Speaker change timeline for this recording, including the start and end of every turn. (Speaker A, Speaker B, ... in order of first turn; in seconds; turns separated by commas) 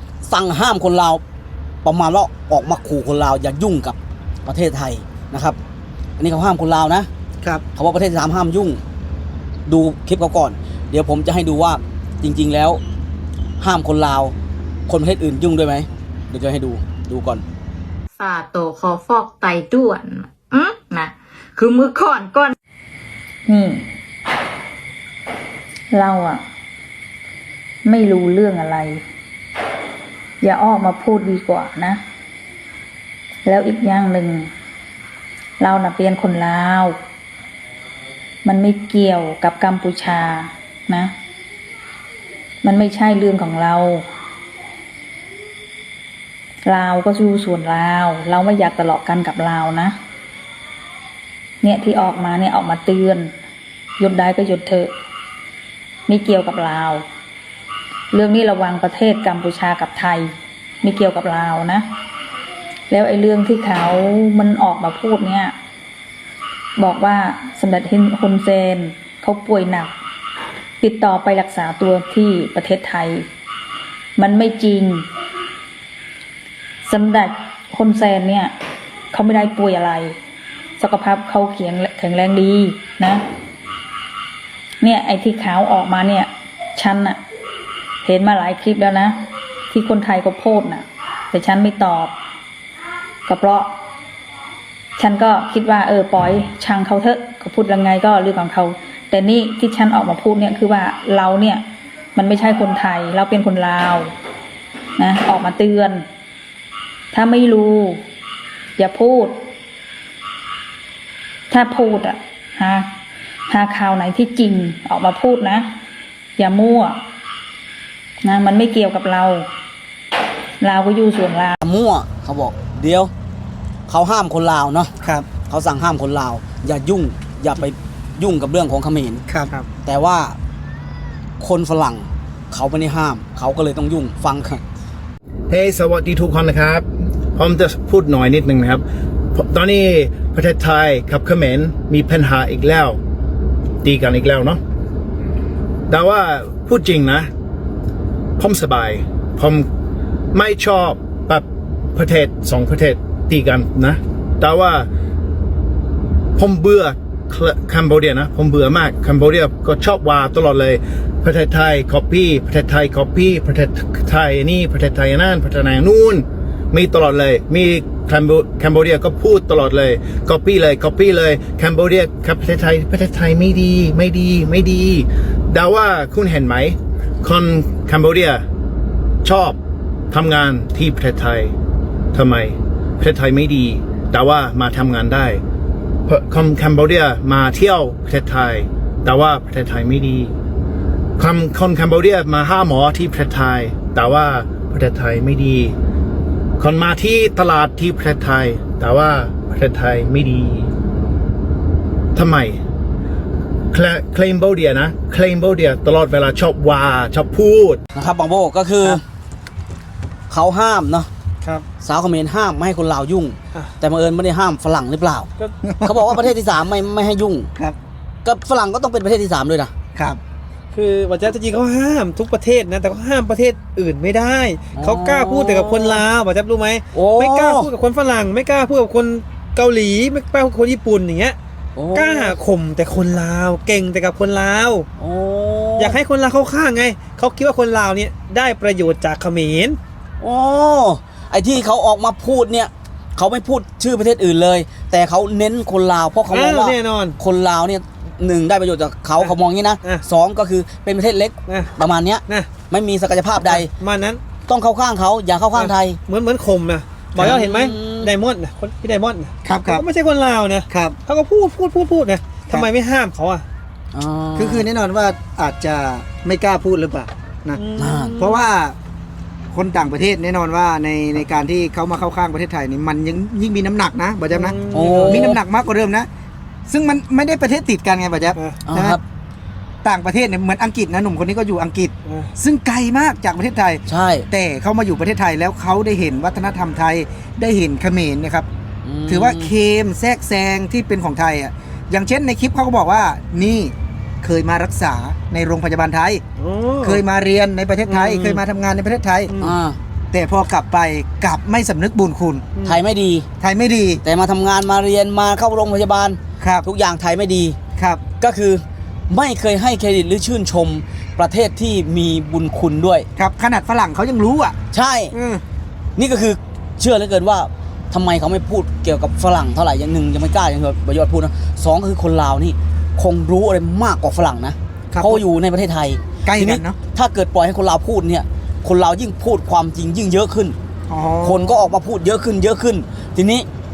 Speaker A: 0.2-1.2, Speaker A: 1.8-5.6, Speaker A: 6.2-7.1, Speaker A: 7.8-8.8, Speaker A: 9.7-12.8, Speaker A: 13.6-14.3, Speaker A: 14.9-17.4, Speaker B: 18.2-22.6, Speaker C: 23.5-23.9, Speaker C: 25.9-26.4, Speaker C: 27.8-29.0, Speaker C: 30.4-32.0, Speaker C: 33.5-34.5, Speaker C: 35.6-37.0, Speaker C: 38.4-41.1, Speaker C: 42.6-44.1, Speaker C: 46.6-50.0, Speaker C: 51.6-53.4, Speaker C: 54.0-54.9, Speaker C: 56.1-57.1, Speaker C: 58.1-61.9, Speaker C: 62.9-65.5, Speaker C: 66.8-70.0, Speaker C: 70.8-73.3, Speaker C: 74.2-75.1, Speaker C: 76.8-78.5, Speaker C: 79.1-80.2, Speaker C: 80.8-83.2, Speaker C: 84.8-87.2, Speaker C: 88.0-92.2, Speaker C: 93.3-93.7, Speaker C: 95.0-101.6, Speaker C: 102.2-104.1, Speaker C: 105.0-106.1, Speaker C: 107.1-108.1, Speaker C: 108.8-109.5, Speaker C: 111.5-112.9, Speaker C: 113.5-115.7, Speaker C: 116.4-117.0, Speaker C: 118.2-119.5, Speaker C: 120.6-121.6, Speaker A: 121.6-123.1, Speaker A: 123.9-124.9, Speaker D: 125.0-125.3, Speaker A: 125.5-129.2, Speaker A: 129.8-130.4, Speaker A: 131.4-134.6, Speaker E: 135.5-143.0, Speaker E: 143.8-144.6, Speaker E: 145.9-147.3, Speaker E: 148.4-149.7, Speaker E: 150.3-154.9, Speaker E: 156.4-178.4, Speaker E: 179.2-179.6, Speaker E: 180.1-181.5, Speaker E: 182.1-185.4, Speaker E: 186.1-190.3, Speaker E: 191.2-195.8, Speaker E: 196.6-200.7, Speaker E: 202.2-202.6, Speaker E: 203.7-207.8, Speaker A: 207.9-209.0, Speaker A: 210.3-211.1, Speaker A: 211.8-215.3, Speaker D: 215.6-216.2, Speaker A: 215.8-217.5, Speaker A: 218.2-219.7, Speaker D: 219.9-220.2, Speaker F: 220.7-231.4, Speaker A: 224.8-226.0, Speaker A: 226.9-227.7, Speaker A: 231.8-232.3, Speaker F: 231.9-234.9, Speaker A: 235.0-236.0, Speaker F: 235.8-239.8, Speaker A: 240.2-253.7, Speaker F: 246.3-247.2, Speaker F: 249.2-250.0, Speaker F: 253.4-254.2, Speaker A: 254.5-256.0, Speaker F: 255.5-263.4, Speaker A: 257.2-258.1, Speaker D: 259.4-259.9, Speaker D: 260.7-261.0, Speaker A: 263.9-264.6, Speaker D: 264.4-267.6, Speaker F: 267.6-268.5, Speaker A: 267.8-268.1, Speaker D: 268.1-268.8, Speaker D: 269.5-276.1, Speaker F: 274.3-275.3, Speaker A: 274.7-275.4, Speaker D: 276.7-279.0, Speaker A: 278.7-279.0, Speaker D: 279.8-288.5, Speaker A: 283.9-284.3, Speaker A: 288.8-289.5, Speaker D: 289.1-296.2, Speaker F: 296.4-297.0, Speaker D: 296.8-299.3, Speaker F: 297.9-298.4, Speaker F: 299.3-299.5, Speaker A: 299.4-299.8, Speaker D: 300.1-302.4, Speaker A: 302.6-303.3, Speaker D: 303.4-304.0, Speaker A: 304.0-307.6, Speaker D: 306.4-306.7, Speaker D: 307.8-308.0, Speaker A: 308.2-313.1, Speaker D: 313.2-314.6, Speaker A: 314.7-315.1, Speaker D: 315.1-315.4, Speaker A: 316.0-330.6, Speaker D: 324.9-325.2, Speaker D: 326.2-326.8, Speaker D: 330.9-331.7, Speaker A: 331.2-333.5